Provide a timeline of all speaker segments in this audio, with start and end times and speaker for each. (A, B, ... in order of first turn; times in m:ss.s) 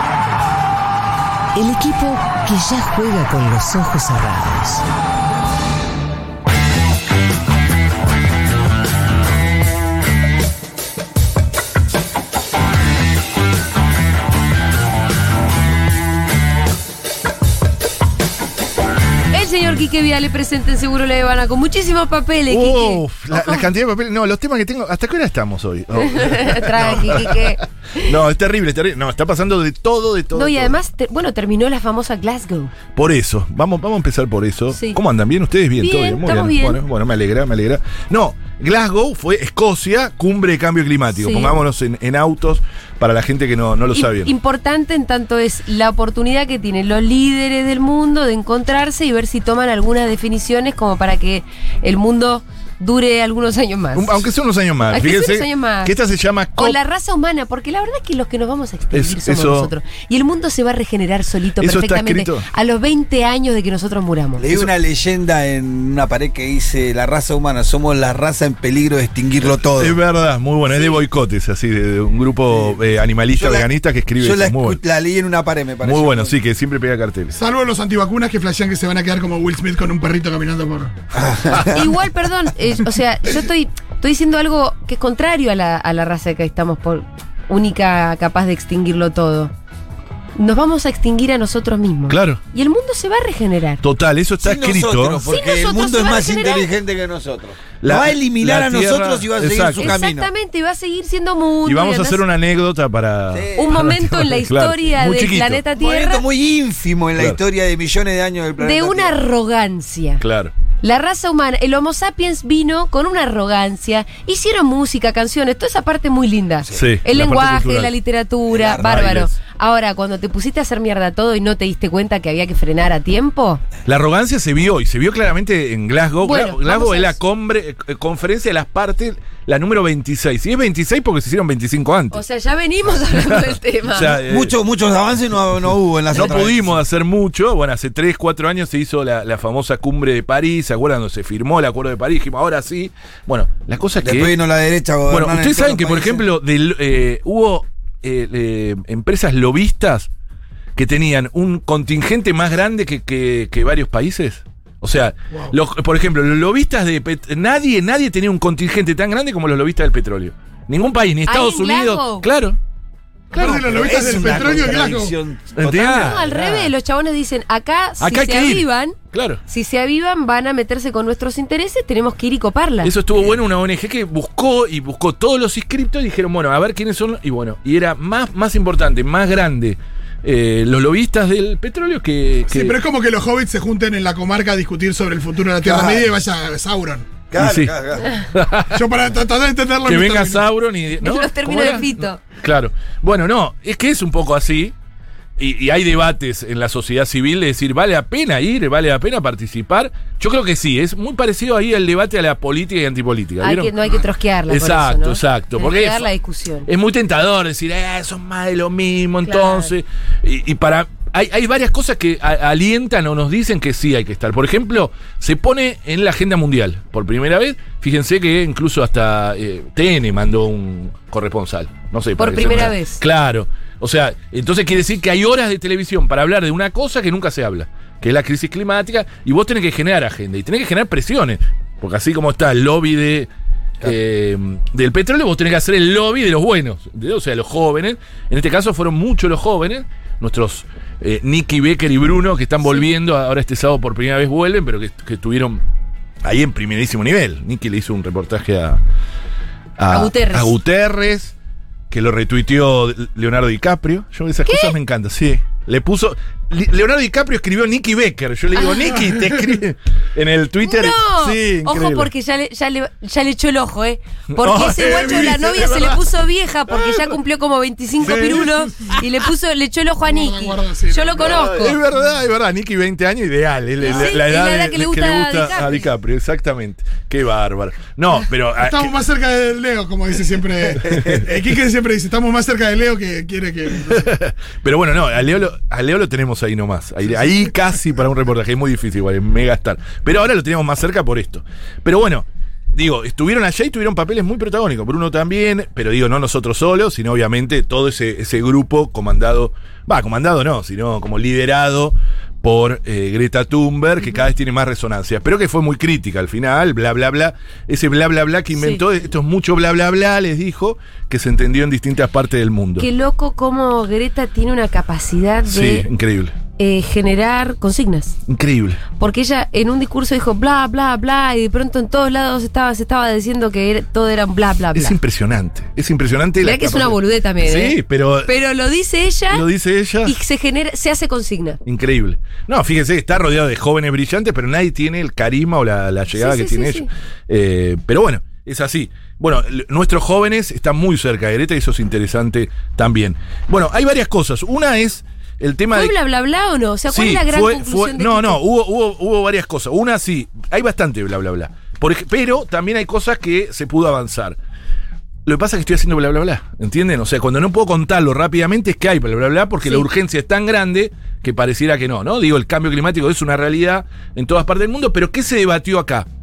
0:01.6-0:04.8 A
0:19.3-0:23.6 B
0:22.5-0:30.8 C
0:26.0-0:28.2 B
0:30.3-0:32.7 B
0:32.9-0:44.3 C
0:34.7-0:35.0 B
0:35.8-0:36.8 B
0:41.2-0:41.5 B
0:43.9-0:54.2 B
0:53.9-0:56.8 C
0:54.9-0:55.9 B
0:56.6-1:04.4 B
0:58.9-0:59.7 C
1:01.6-1:02.5 C
1:04.4-1:10.0 D
1:09.4-1:14.8 C
1:13.4-1:16.3 D
1:15.8-1:17.4 C
1:17.4-1:20.9 E
1:21.1-1:21.8 D
1:21.7-1:29.5 B
1:30.4-1:33.8 B
1:32.1-1:32.4 C
1:33.8-1:35.3 C
1:34.4-1:40.3 D
1:35.3-1:36.7 B
1:37.8-1:40.0 C
1:39.8-1:42.2 B
1:41.6-1:45.6 C
1:43.3-1:43.8 D
1:43.6-1:46.2 B
1:45.8-1:49.2 D
1:48.6-1:50.2 B
1:50.2-1:50.5 C
1:50.8-2:03.6 B
1:56.7-1:57.9 C
1:58.5-1:59.2 D
1:58.8-1:59.3 C
2:03.8-2:12.2 C
2:06.2-2:07.2 B
2:12.1-2:14.2 B
2:13.1-2:14.6 C
2:14.3-2:16.7 D
2:16.1-2:24.4 C
2:24.0-2:26.2 D
2:25.1-2:30.1 C
2:30.8-2:42.6 C
2:41.3-2:42.3 B
2:43.3-2:46.7 D
2:43.4-2:45.2 E
2:45.6-2:46.3 C
2:45.9-2:49.0 B
2:48.0-2:49.4 C
2:49.5-2:52.9 B
2:52.8-3:02.8 C
3:02.5-3:07.1 E
3:05.6-3:06.1 D
3:07.3-3:08.2 D
3:07.4-3:08.9 C
3:08.7-3:10.4 E
3:09.8-3:14.8 C
3:11.0-3:12.2 B
3:15.4-3:26.1 C
3:23.4-3:26.7 B
3:26.7-3:53.3 C
3:29.2-3:29.7 B
3:42.2-3:43.0 B
3:53.8-4:05.6 C
4:06.2-4:08.8 C
4:09.8-4:11.4 C
4:09.9-4:10.6 B
4:11.9-4:22.1 C
4:14.5-4:14.7 B
4:20.6-4:31.8 B
4:24.3-4:26.0 C
4:24.7-4:25.5 E
4:26.7-4:27.2 C
4:28.0-4:29.0 C
4:30.1-4:31.4 E
4:31.2-4:38.9 C
4:33.8-4:35.9 B
4:38.6-4:44.1 E
4:40.8-4:41.3 C
4:43.9-5:12.9 C
5:08.5-5:08.8 B
5:12.8-5:15.9 B
5:15.5-5:16.4 C
5:16.6-5:18.2 B
5:18.3-5:18.8 C
5:18.9-5:25.0 B
5:24.7-5:28.3 C
5:26.4-5:29.5 B
5:29.3-5:30.2 C
5:30.0-5:31.6 B
5:31.6-5:45.9 C
5:36.2-5:36.9 B
5:45.7-5:48.4 B
5:46.9-5:54.4 C
5:55.2-6:06.1 C
5:59.6-5:59.9 B